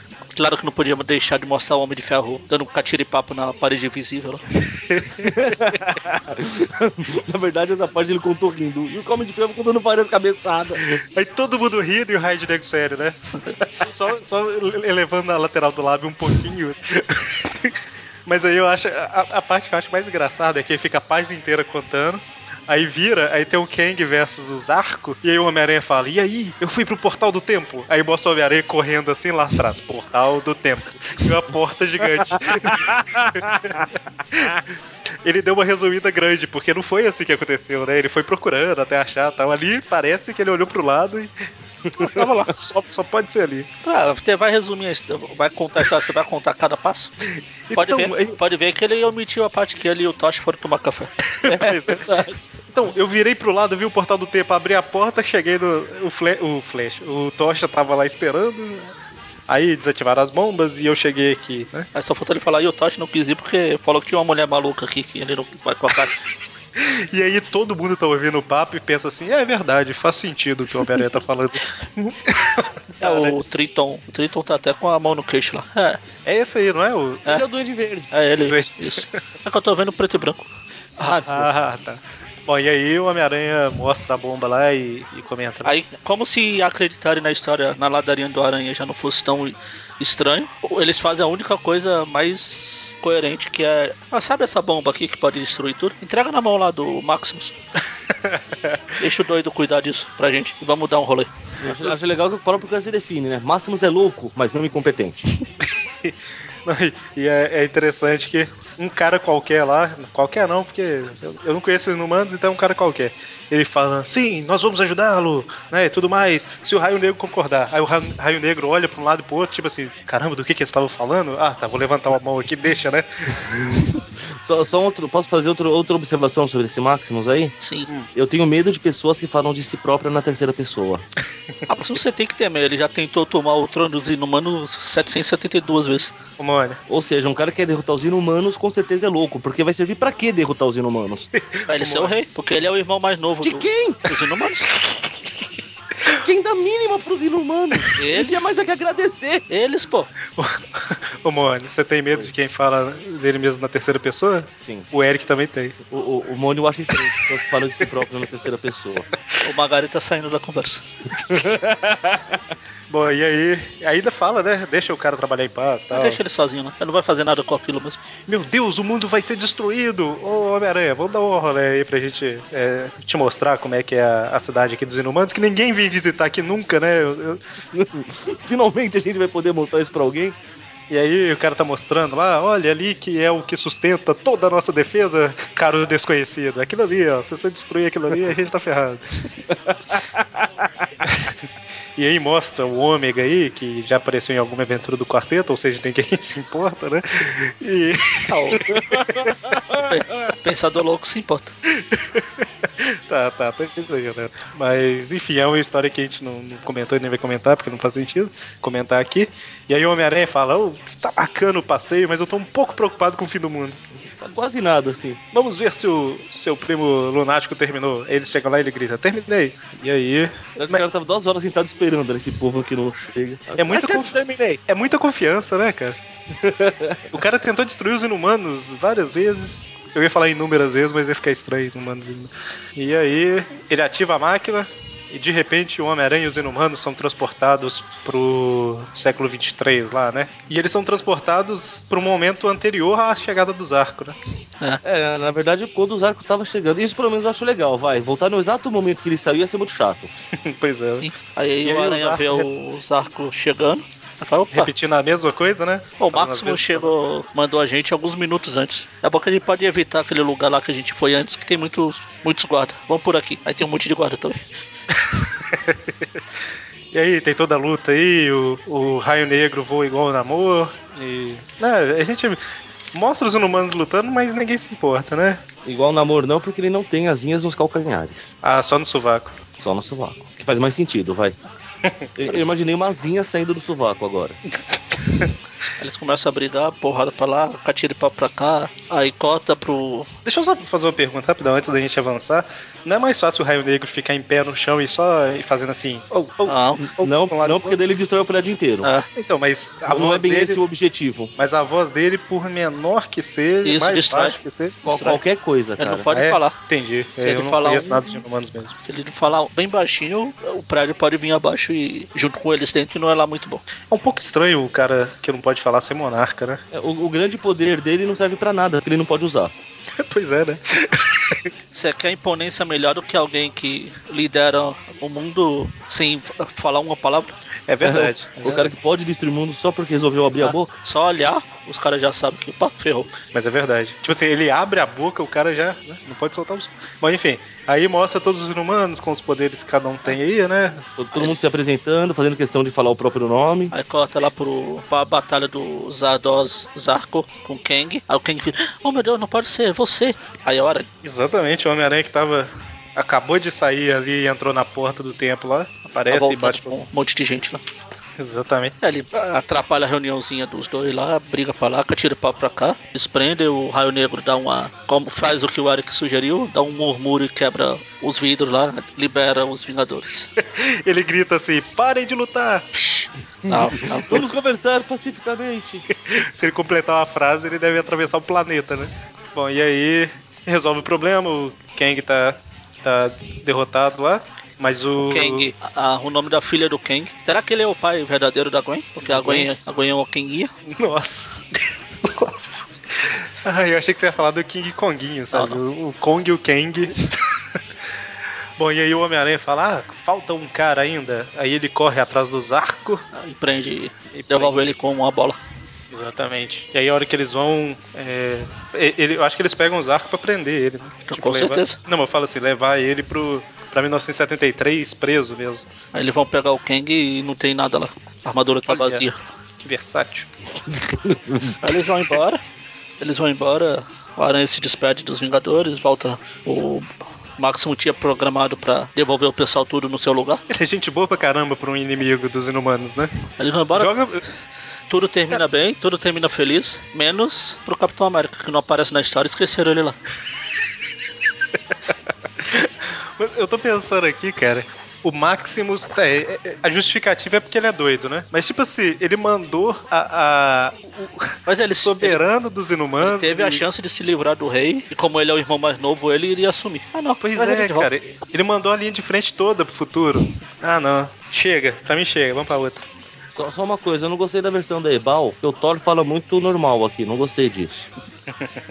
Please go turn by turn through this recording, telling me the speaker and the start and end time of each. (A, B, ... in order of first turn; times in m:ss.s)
0:00.3-0:04.4 A
0:04.9-0:05.8 B
0:05.2-0:10.9 C
0:11.0-0:13.2 B
0:13.7-0:34.6 B
0:32.1-0:33.9 C
0:35.2-0:41.3 B
0:42.0-0:43.7 B
0:42.0-0:42.3 A
0:43.8-0:47.1 A
0:47.7-0:48.4 B
0:47.7-0:51.1 A
0:51.3-0:52.1 B
0:51.4-0:52.5 C
0:52.7-0:58.9 B
0:59.5-1:01.9 B
1:01.9-1:06.2 A
1:06.8-1:13.4 B
1:13.0-1:16.0 A
1:16.2-1:17.4 B
1:17.2-1:18.1 C
1:18.1-1:20.5 A
1:18.4-1:19.1 B
1:21.0-1:21.5 C
1:21.0-1:25.7 B
1:25.6-1:37.5 A
1:38.2-1:38.8 B
1:39.0-1:41.3 A
1:41.6-1:45.2 C
1:46.6-2:03.0 B
2:03.3-2:07.5 C
2:07.6-2:07.9 A
2:08.1-2:11.0 C
2:11.7-2:16.1 A
2:16.4-2:16.8 B
2:16.9-2:21.3 C
2:21.3-2:22.1 B
2:21.7-2:24.7 A
2:23.4-2:24.0 C
2:24.7-2:25.2 B
2:26.1-2:29.4 C
2:28.0-2:28.5 A
2:29.5-2:30.1 A
2:30.4-2:35.8 B
2:34.5-2:34.9 C
2:35.9-2:39.1 C
2:39.4-2:40.8 A
2:41.1-2:42.4 C
2:42.9-2:46.2 B
2:45.9-2:48.0 A
2:48.3-2:57.4 B
2:57.7-3:00.4 C
3:00.9-3:09.2 B
3:09.5-3:10.8 C
3:11.0-3:11.4 B
3:12.0-3:19.3 B
3:18.3-3:18.7 A
3:18.7-3:19.8 C
3:19.8-3:21.5 A
3:21.7-3:33.8 B
3:34.0-3:35.2 C
3:35.3-3:40.8 B
3:40.6-3:44.6 C
3:43.6-3:44.1 B
3:44.7-3:46.0 B
3:46.3-3:47.1 C
3:47.1-4:04.2 B
4:04.8-4:10.1 C
4:10.4-4:11.1 B
4:11.0-4:14.7 A
4:11.6-4:12.5 B
4:14.5-4:16.9 B
4:16.0-4:24.4 A
4:25.5-4:25.8 B
4:26.9-4:32.4 B
4:32.9-4:35.4 B
4:35.6-4:38.4 C
4:38.4-4:39.3 B
4:39.6-4:41.4 C
4:42.2-4:44.4 C
4:45.0-4:45.3 B
4:45.8-4:50.1 A
4:50.2-4:57.8 B
4:56.4-4:56.8 A
4:57.0-4:58.9 C
4:59.1-5:00.6 B
4:59.9-5:01.3 C
5:01.4-5:04.8 B
5:03.6-5:05.2 A
5:04.8-5:06.1 C
5:05.8-5:06.6 A
5:06.1-5:08.7 B
5:07.2-5:08.2 A
5:08.8-5:13.6 A
5:13.9-5:16.6 B
5:16.7-5:19.5 C
5:20.0-5:21.5 B
5:21.7-5:27.3 A
5:27.7-5:28.7 B
5:27.8-5:30.7 C
5:30.4-5:33.1 A
5:33.3-5:40.9 B
5:41.0-5:43.7 C
5:43.7-5:50.9 A
5:51.0-5:56.8 B
5:56.1-5:57.6 A
5:58.2-5:58.7 B
5:58.8-6:10.3 A
6:10.4-6:12.6 B
6:12.8-6:14.2 A
6:13.4-6:15.8 C
6:15.9-6:25.5 B
6:25.0-6:30.5 A
6:29.0-6:29.5 B
6:30.7-6:37.2 B
6:35.3-6:35.6 A
6:38.6-6:43.0 B
6:43.1-6:45.4 A
6:44.1-6:44.7 B
6:45.9-6:55.6 B
6:51.1-6:51.8 A
6:55.9-6:59.2 A
6:58.7-6:59.1 B
6:59.6-7:00.3 B
7:00.7-7:01.6 C
7:01.6-7:02.4 A
7:03.0-7:10.4 A
7:10.5-7:13.2 B
7:13.4-7:13.9 A
7:13.7-7:14.2 B
7:14.9-7:20.0 A
7:22.4-7:33.6 B
7:31.5-7:32.2 A
7:33.0-7:37.9 A
7:37.2-7:42.8 B
7:43.3-7:47.9 C